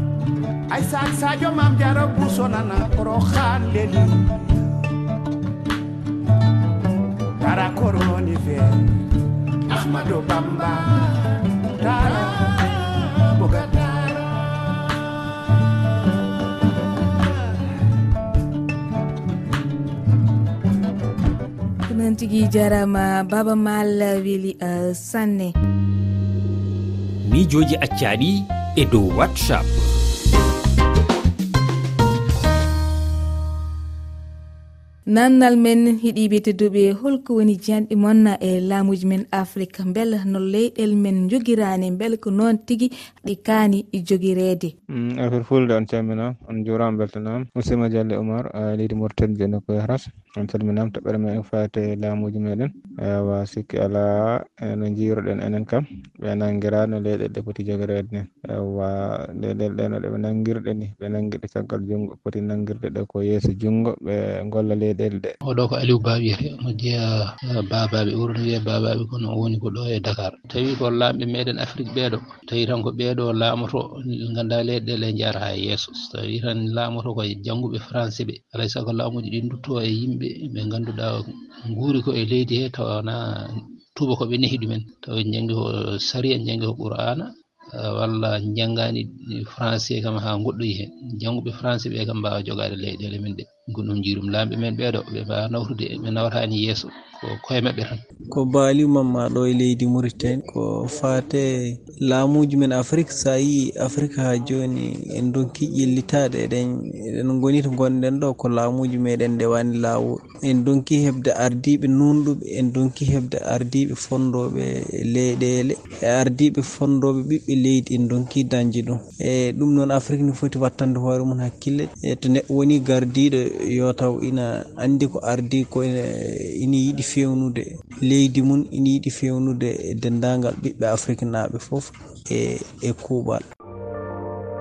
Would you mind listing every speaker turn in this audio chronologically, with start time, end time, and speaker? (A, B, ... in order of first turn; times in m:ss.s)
0:00.7-0:04.6 A
0:07.4-0:09.0 A
0:09.7-0:15.0 A
0:21.9-0:25.5 B
0:27.2-0:29.7 C
0:35.1-0:44.7 B
0:44.9-1:05.3 D
1:05.4-1:27.3 E
1:27.8-1:38.0 E
1:38.3-2:13.4 F